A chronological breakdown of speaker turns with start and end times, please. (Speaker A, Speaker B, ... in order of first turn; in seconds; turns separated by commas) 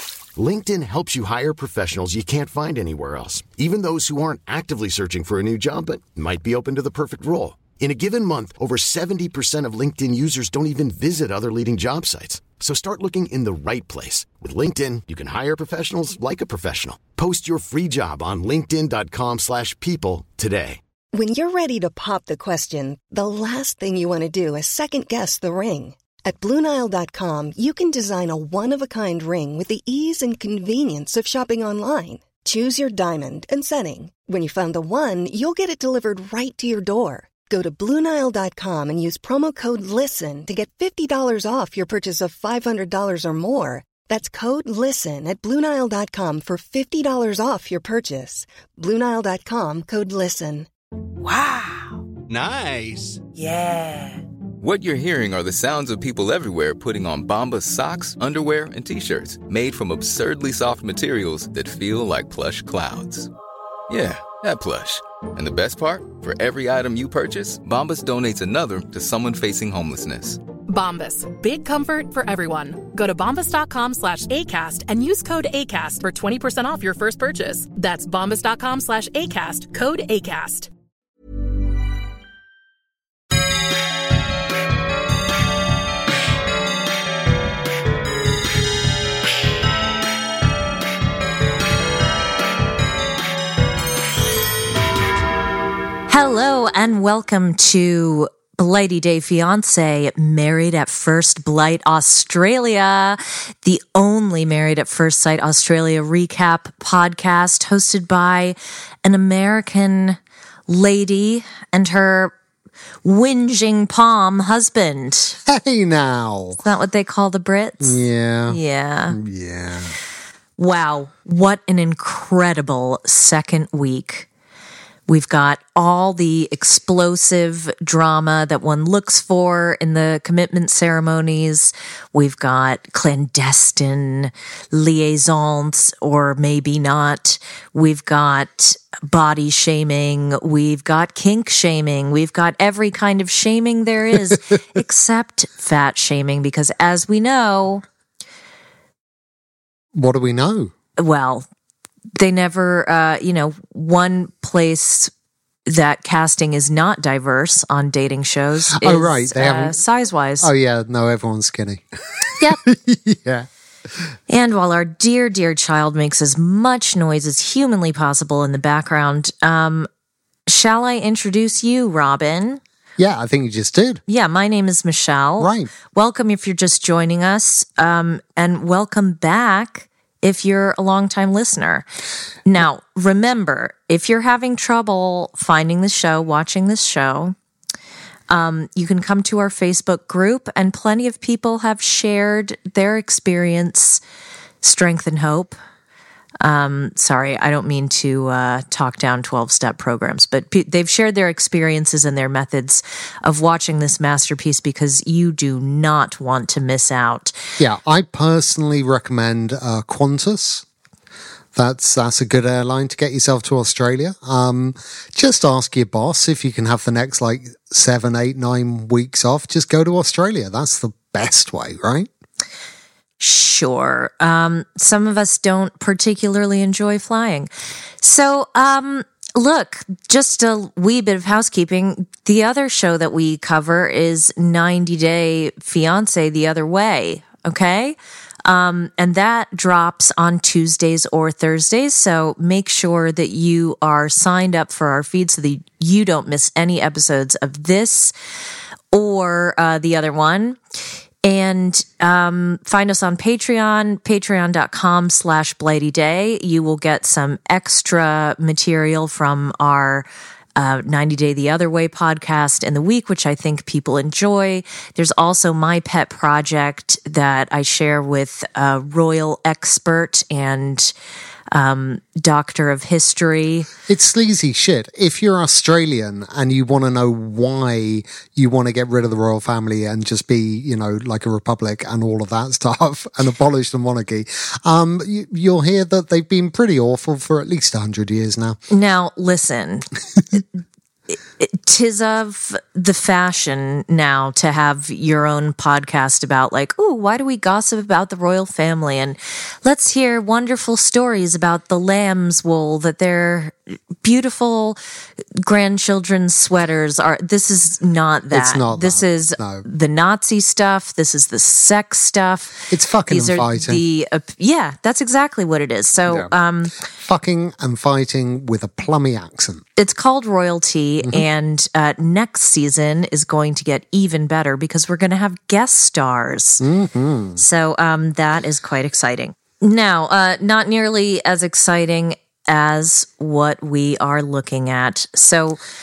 Speaker A: 0.4-20.8, Speaker B: 21.1-50.7, Speaker C: 54.6-63.3, Speaker C: 63.9-70.4, Speaker D: 70.7-80.7, Speaker E: 96.1-112.3, Speaker E: 113.0-115.4, Speaker F: 115.5-116.6, Speaker E: 116.6-119.2, Speaker F: 117.8-118.6, Speaker F: 119.1-119.9, Speaker E: 120.6-124.3, Speaker E: 125.1-147.8, Speaker F: 149.9-150.7, Speaker E: 151.0-151.4, Speaker E: 152.2-155.1, Speaker E: 155.7-160.5, Speaker F: 158.8-159.8, Speaker F: 160.4-163.5, Speaker E: 164.3-169.9, Speaker E: 170.5-172.6, Speaker F: 173.0-174.0, Speaker E: 174.1-181.8, Speaker F: 175.4-175.7, Speaker E: 182.5-187.3, Speaker E: 188.3-194.0, Speaker E: 194.6-195.6, Speaker E: 196.4-207.3, Speaker F: 207.6-210.7, Speaker F: 211.5-222.1, Speaker E: 223.2-227.5, Speaker E: 228.0-248.1, Speaker E: 248.9-250.6, Speaker E: 251.2-270.9, Speaker E: 271.5-273.7, Speaker F: 273.9-288.6, Speaker E: 288.7-290.4, Speaker E: 291.4-304.8, Speaker E: 305.4-316.8, Speaker F: 308.3-309.6, Speaker F: 312.7-313.8, Speaker F: 316.9-319.6, Speaker E: 319.8-326.6, Speaker F: 326.6-327.4, Speaker E: 327.4-335.6